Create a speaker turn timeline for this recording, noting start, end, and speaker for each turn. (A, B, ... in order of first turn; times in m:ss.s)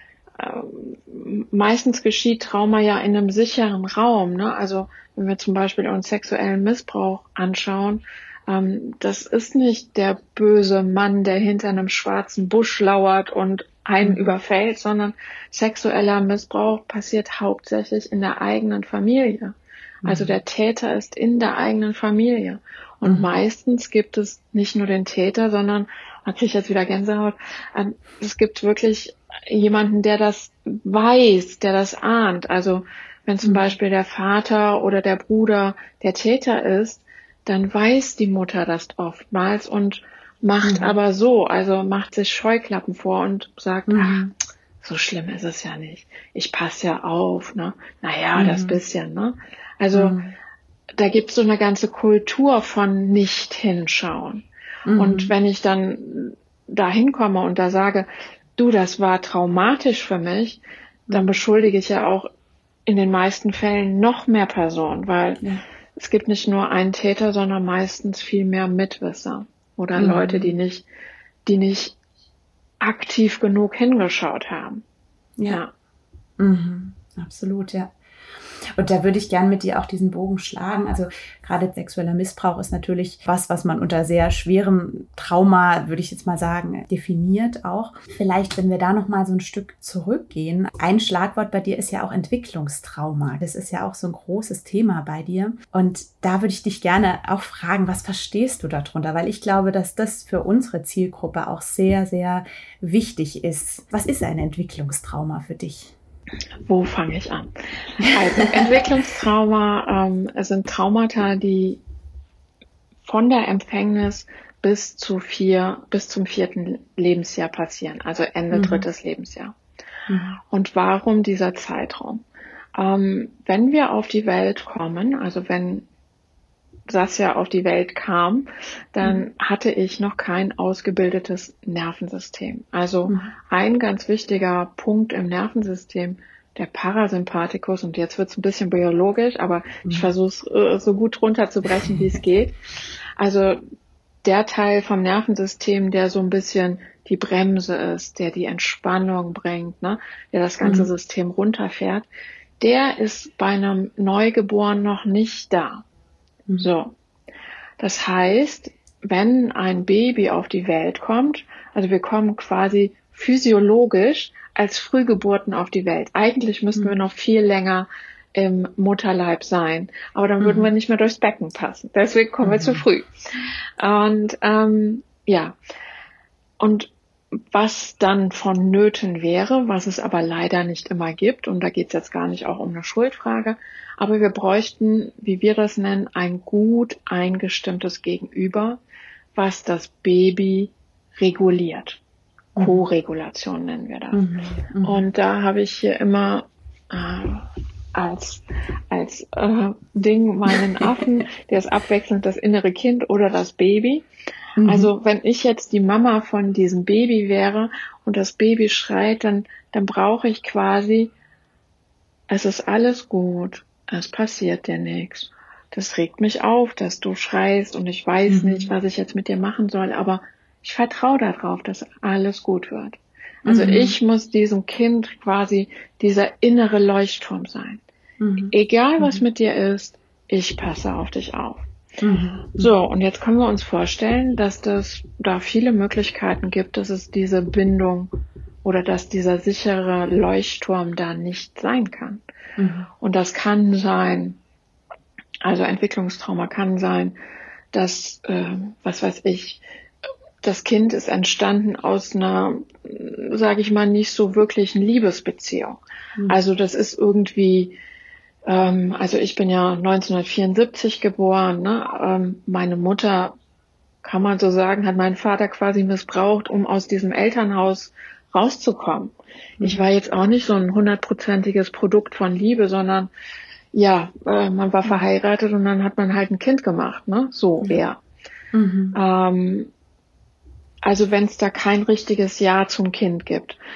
0:00.4-0:44.2 A
0:14.0-0:14.3 B
0:20.0-0:20.3 B
0:40.6-0:40.9 B
0:43.9-0:44.3 B
0:44.8-0:50.2 A
0:48.4-0:48.8 B
0:49.9-0:50.3 B
0:51.0-1:02.3 A
0:54.9-0:55.3 B
1:01.1-1:01.3 B
1:02.9-1:05.4 A
1:06.0-1:10.8 A
1:10.0-1:10.5 B
1:11.4-1:12.0 A
1:12.8-1:14.8 A
1:16.4-1:17.9 B
1:18.7-1:45.9 B
1:46.7-1:51.8 A
1:48.4-1:49.0 B
1:53.0-1:59.5 A
1:58.5-1:58.8 B
2:00.1-2:00.4 B
2:00.5-2:02.2 A
2:02.7-2:05.9 A
2:06.9-2:22.5 A
2:19.8-2:20.1 B
2:21.8-2:22.0 B
2:23.2-2:23.6 A
2:24.2-2:32.1 A
2:30.6-2:30.9 B
2:32.6-2:35.8 A
2:36.6-2:36.9 A
2:37.8-2:53.1 A
2:50.4-2:50.7 B
2:52.4-2:52.8 B
2:53.8-2:55.6 A
2:56.6-2:56.9 A
2:57.5-3:08.8 A
3:09.4-3:12.0 A
3:12.6-3:12.8 B
3:12.6-3:14.2 A
3:14.1-3:15.0 B
3:14.8-3:24.0 A
3:20.8-3:21.1 B
3:24.6-3:24.9 B
3:24.6-3:31.1 A
3:32.3-3:47.8 A
3:38.3-3:38.7 B
3:43.4-3:44.0 B
3:48.2-3:49.2 B
3:48.5-3:51.6 A
3:52.0-3:52.7 B
3:52.6-3:58.1 A
3:58.6-4:02.2 A
4:02.6-4:02.9 B
4:03.0-4:04.4 A
4:05.4-4:07.2 A
4:07.7-4:09.6 A
4:10.4-4:17.8 A
4:18.5-4:23.3 A
4:24.0-4:33.1 A
4:29.6-4:29.8 B
4:33.7-4:38.0 A
4:38.5-4:39.0 B
4:38.9-4:39.7 A
4:40.8-4:43.6 A